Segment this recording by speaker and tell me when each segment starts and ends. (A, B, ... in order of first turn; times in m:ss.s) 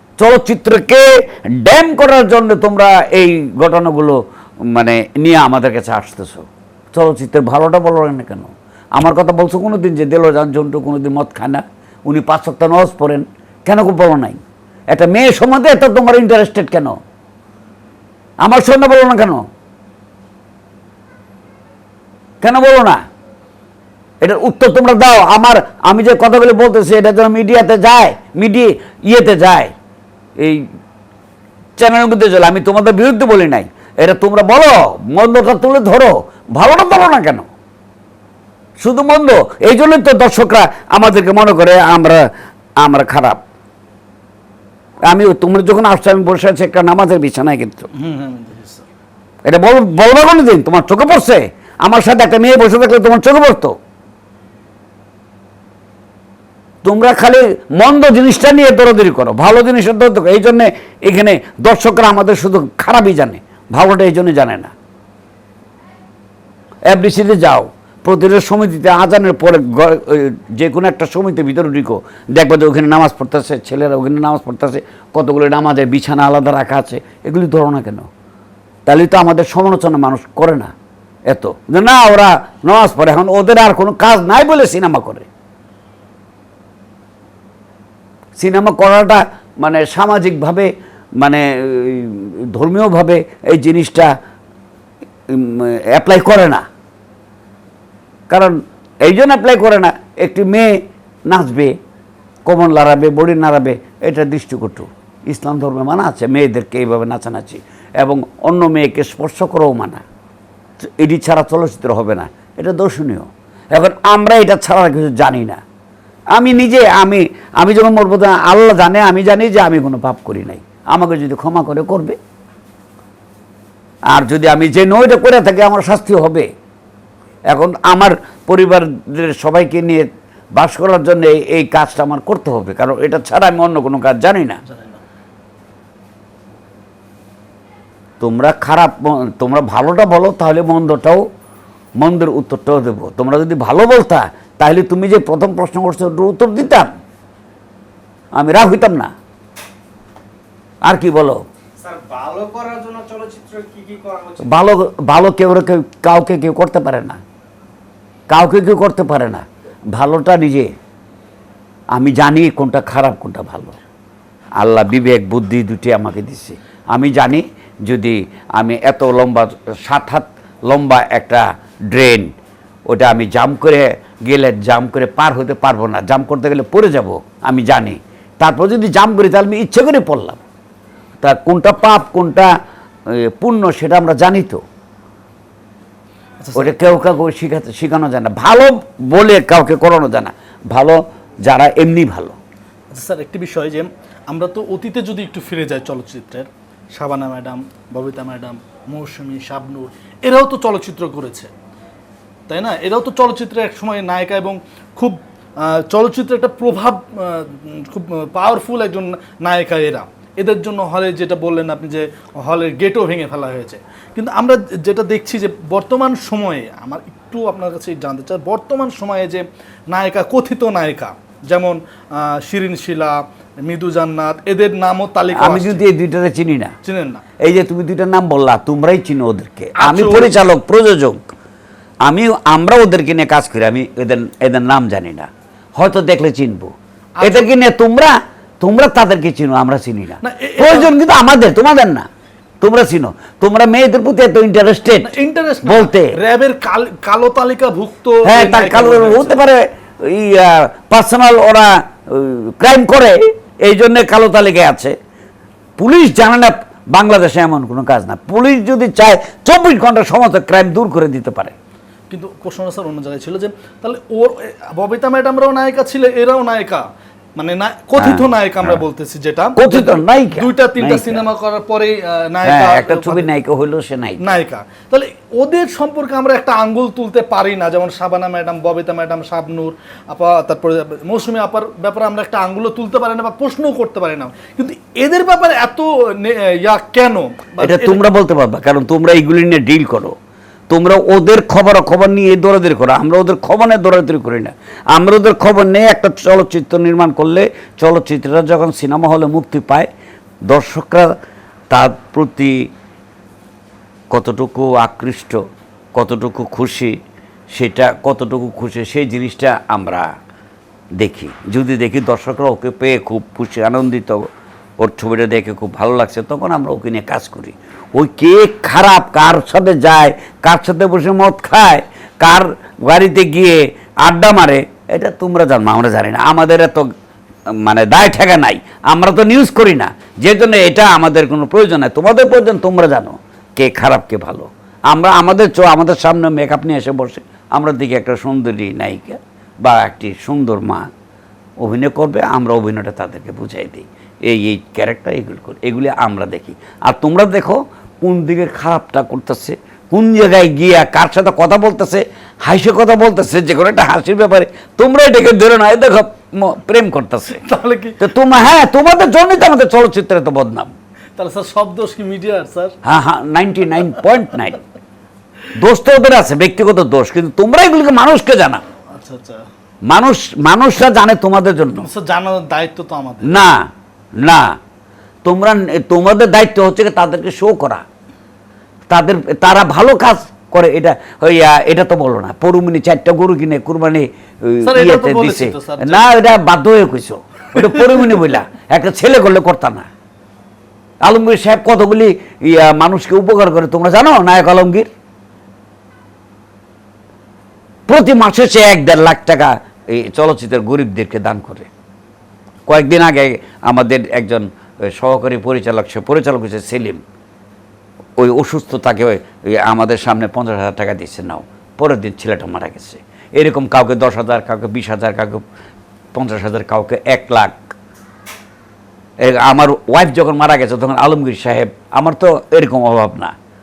0:00.2-0:17.0 A
0:18.4-0:19.4 A
0:22.4-0:23.0 A
0:24.2-0:29.7 A
0:30.4-0:30.6 A
0:31.8-0:37.5 A
0:38.8-0:42.2 A
0:42.8-0:43.4 A
0:45.0-0:47.9 A
0:47.9-0:48.9 B
0:49.4-0:53.8 A
0:56.8-1:04.7 A
1:06.9-1:18.1 A
1:18.9-1:20.7 A
1:21.3-1:25.3 A
1:28.4-1:34.1 A
1:35.3-1:36.6 A
1:38.3-1:40.8 A
1:41.3-1:41.7 A
1:42.5-1:50.0 A
1:50.8-1:55.6 A
1:56.3-2:02.2 A
2:04.1-2:06.5 A
2:07.5-2:14.6 A
2:14.6-2:15.0 B
2:18.2-2:21.2 A
2:22.0-2:26.9 A
2:28.4-2:29.1 A
2:30.8-2:31.4 A
2:31.9-2:34.4 C
2:34.4-2:37.2 A
2:38.3-2:40.7 A
2:41.9-2:43.8 A
2:44.6-2:52.3 A
2:52.9-3:00.4 A
3:01.2-3:02.5 A
3:03.1-3:04.6 A
3:06.4-3:07.0 B
3:06.6-3:12.4 A
3:12.9-3:21.5 B
3:22.5-3:45.8 B
3:45.3-3:46.7 A
3:46.8-3:47.2 B
3:47.4-3:51.3 A
3:49.8-3:50.4 B
3:52.0-4:02.0 A
3:57.2-3:57.5 B
4:00.2-4:00.9 B
4:02.6-4:06.1 A
4:05.0-4:09.4 B
4:08.2-4:15.0 A
4:15.8-4:21.5 A
4:22.1-4:26.8 B
4:27.4-4:33.3 B
4:28.0-4:28.8 A
4:29.6-4:31.2 A
4:32.4-4:34.2 A
4:34.2-4:48.0 B
4:47.6-4:50.1 A
4:50.7-4:59.9 A
5:00.5-5:01.1 A
5:01.7-5:02.7 A
5:04.1-5:07.0 A
5:07.5-5:10.1 A
5:11.0-5:14.2 A
5:14.8-5:26.9 A
5:27.5-5:40.9 A
5:41.6-5:57.4 A
5:57.3-5:58.0 B
5:58.0-6:00.7 A
6:01.2-6:02.7 B
6:02.8-6:04.6 A
6:05.5-6:08.6 A
6:08.9-6:09.4 B
6:09.9-6:11.9 A
6:11.8-6:13.5 B
6:13.2-6:13.7 A
6:14.2-6:14.6 A
6:15.2-6:17.8 A
6:18.9-6:29.9 A
6:24.6-6:26.0 B
6:27.7-6:28.0 B
6:31.0-6:34.9 A
6:37.9-6:41.7 A
6:42.7-6:47.0 A
6:48.2-6:55.4 A
6:56.1-6:57.8 A
6:59.2-7:03.3 A